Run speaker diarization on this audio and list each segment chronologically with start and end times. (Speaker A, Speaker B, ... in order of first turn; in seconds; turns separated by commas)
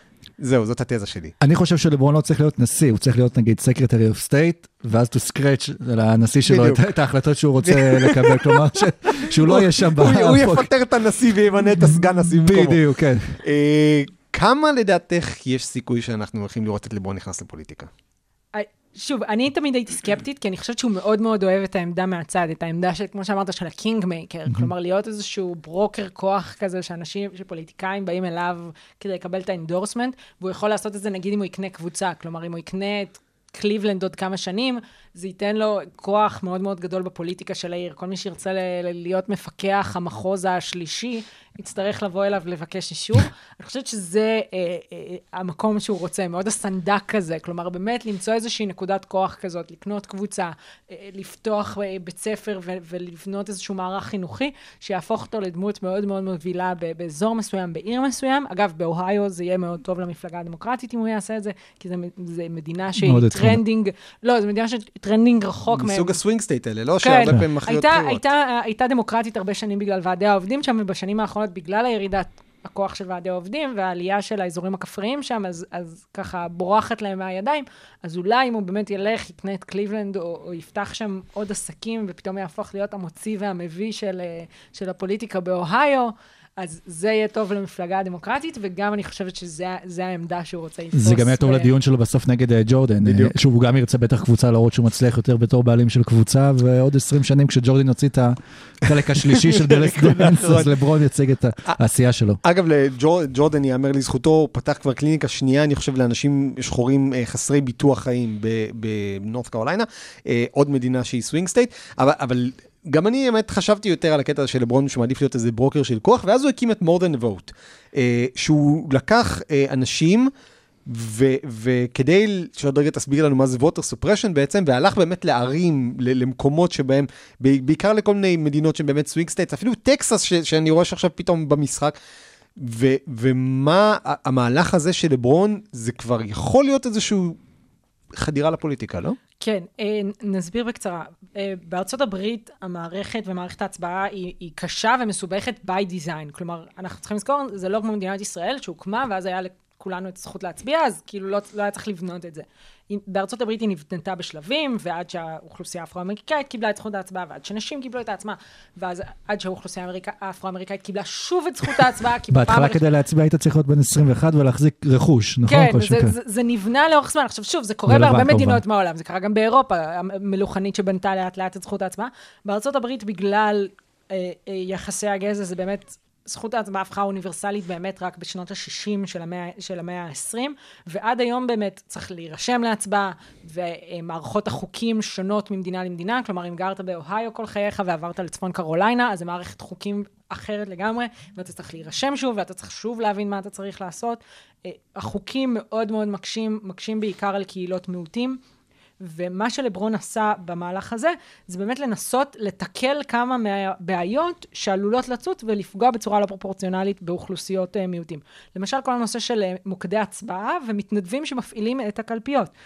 Speaker A: 0.4-1.3, Speaker B: 1.4-10.7, Speaker A: 6.5-6.9, Speaker A: 7.6-12.8, Speaker B: 11.8-13.4, Speaker A: 13.4-17.9, Speaker C: 18.5-66.2, Speaker B: 63.0-63.6, Speaker A: 65.7-68.2, Speaker C: 67.0-91.7, Speaker B: 91.0-102.4, Speaker A: 93.0-93.3, Speaker A: 99.3-100.7, Speaker A: 102.4-120.3, Speaker A: 120.8-131.9, Speaker A: 132.6-137.4, Speaker A: 138.1-139.2, Speaker C: 139.4-162.8, Speaker B: 162.3-166.1, Speaker C: 165.5-198.4, Speaker B: 167.9-168.6, Speaker C: 199.0-212.5